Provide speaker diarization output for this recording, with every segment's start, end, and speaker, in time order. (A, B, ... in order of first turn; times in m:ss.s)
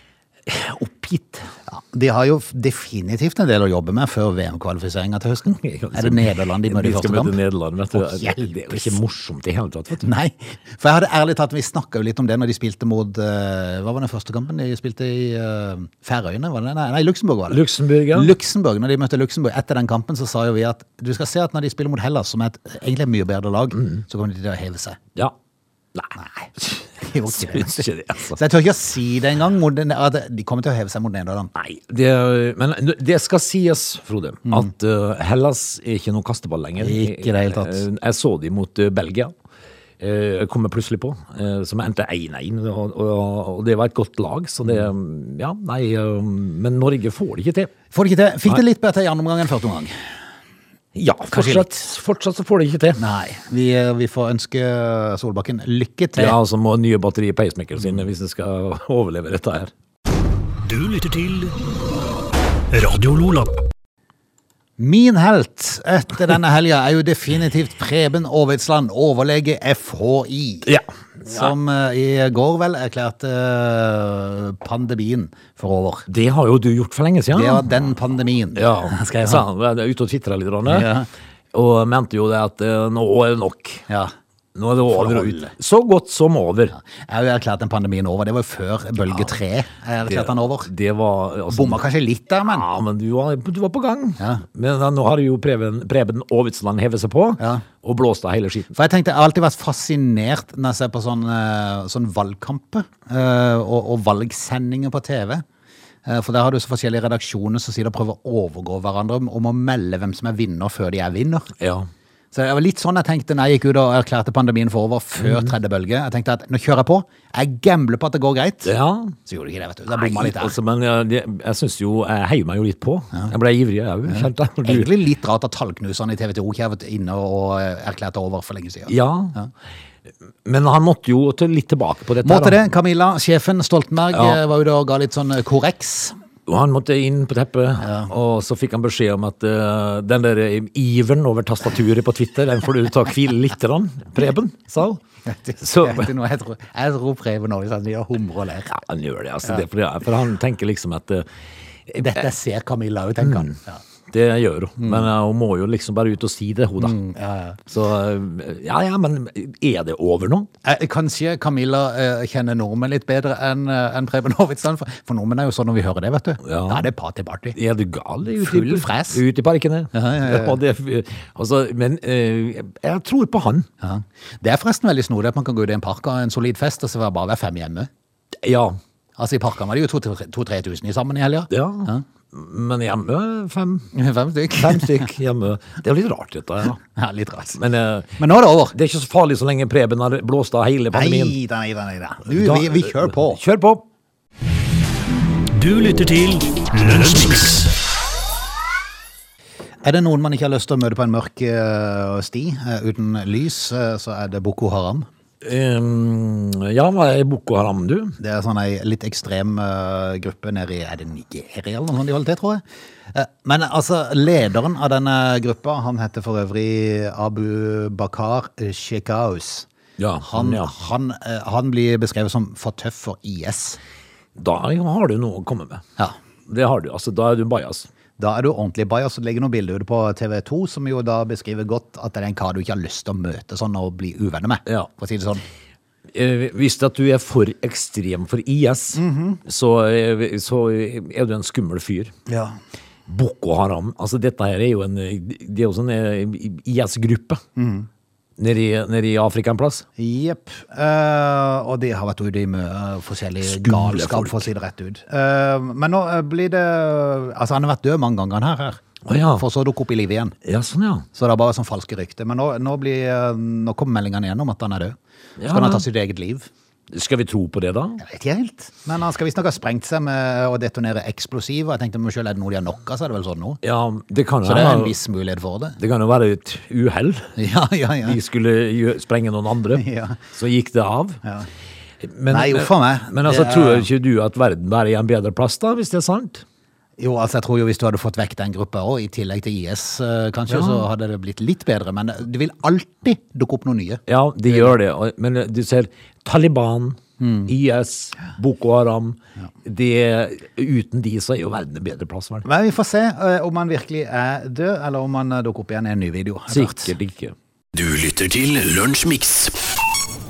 0:00.5-0:01.5 A
0:01.7-0:07.4 B
0:05.5-0:10.1 A
0:07.9-0:09.0 B
0:10.0-0:25.0 B
0:17.5-0:18.4 A
0:26.0-0:26.7 A
0:26.2-0:31.5 B
0:27.2-0:28.4 A
0:31.6-0:39.3 A
0:36.8-0:37.8 B
0:40.0-0:47.7 A
0:47.9-0:50.0 B
0:51.0-0:53.0 A
0:51.3-0:51.9 B
0:53.0-0:56.4 B
0:56.2-0:59.7 A
1:00.6-1:01.6 A
1:02.7-1:03.6 A
1:04.8-1:10.7 B
1:10.6-1:11.5 A
1:11.2-1:16.1 B
1:16.1-1:17.6 A
1:17.3-1:19.4 B
1:18.6-1:20.9 A
1:20.7-1:21.1 B
1:21.5-1:23.8 A
1:24.6-1:26.8 A
1:24.9-1:25.5 B
1:26.7-1:30.7 B
1:30.1-1:31.8 A
1:31.5-1:32.7 B
1:32.4-1:38.7 A
1:34.2-1:34.4 B
1:37.4-1:37.6 B
1:38.7-1:45.4 B
1:46.1-1:51.5 B
1:51.6-1:51.9 A
1:52.3-1:58.7 B
1:55.2-1:55.5 A
1:58.6-1:59.2 A
1:59.2-2:00.6 B
1:59.9-2:04.9 A
2:04.1-2:09.5 B
2:08.9-2:09.4 A
2:10.5-2:12.6 A
2:12.2-2:16.2 B
2:14.1-2:14.4 A
2:16.5-2:25.0 A
2:17.8-2:18.1 B
2:25.3-2:28.8 B
2:25.6-2:26.1 A
2:28.7-2:31.3 A
2:31.9-2:32.3 A
2:32.0-2:33.8 B
2:33.2-2:33.6 A
2:34.1-2:37.0 A
2:34.8-2:35.1 B
2:36.8-2:37.6 B
2:37.7-2:40.5 A
2:40.6-2:47.6 B
2:46.4-2:46.9 A
2:47.6-2:53.7 A
2:48.3-2:49.2 B
2:49.9-2:50.6 B
2:53.8-2:57.9 B
2:58.4-2:58.8 A
2:59.2-3:02.0 B
3:01.5-3:03.9 A
3:03.9-3:05.1 B
3:04.6-3:06.8 A
3:06.8-3:07.6 B
3:07.6-3:11.4 A
3:08.2-3:08.8 B
3:10.9-3:13.4 B
3:12.3-3:13.8 A
3:15.6-3:17.4 C
3:15.7-3:17.7 A
3:19.8-3:25.1 B
3:25.4-3:28.2 A
3:28.2-3:39.7 B
3:40.0-3:40.7 A
3:40.2-3:43.8 B
3:44.4-3:45.8 A
3:46.5-3:47.9 A
3:48.2-3:55.4 B
3:56.1-4:02.1 A
3:58.9-3:59.4 B
4:02.3-4:02.5 B
4:03.1-4:07.4 A
4:07.6-4:07.9 B
4:08.4-4:09.8 A
4:10.0-4:18.8 B
4:13.4-4:14.5 A
4:19.0-4:19.4 A
4:19.4-4:20.4 B
4:20.4-4:21.1 A
4:21.1-4:25.0 B
4:25.4-4:25.9 A
4:25.5-4:26.5 B
4:26.9-4:28.0 A
4:28.0-4:33.6 B
4:33.6-4:35.0 A
4:34.4-4:35.8 B
4:35.8-4:37.4 A
4:37.4-4:38.2 B
4:38.0-4:41.2 A
4:39.7-4:40.2 B
4:41.2-4:41.5 B
4:42.0-4:46.4 A
4:42.3-4:43.9 B
4:47.0-4:54.8 B
4:50.5-4:50.9 A
4:54.1-5:02.4 A
4:57.2-4:57.5 B
5:02.4-5:06.9 B
5:06.5-5:07.4 A
5:07.7-5:09.6 C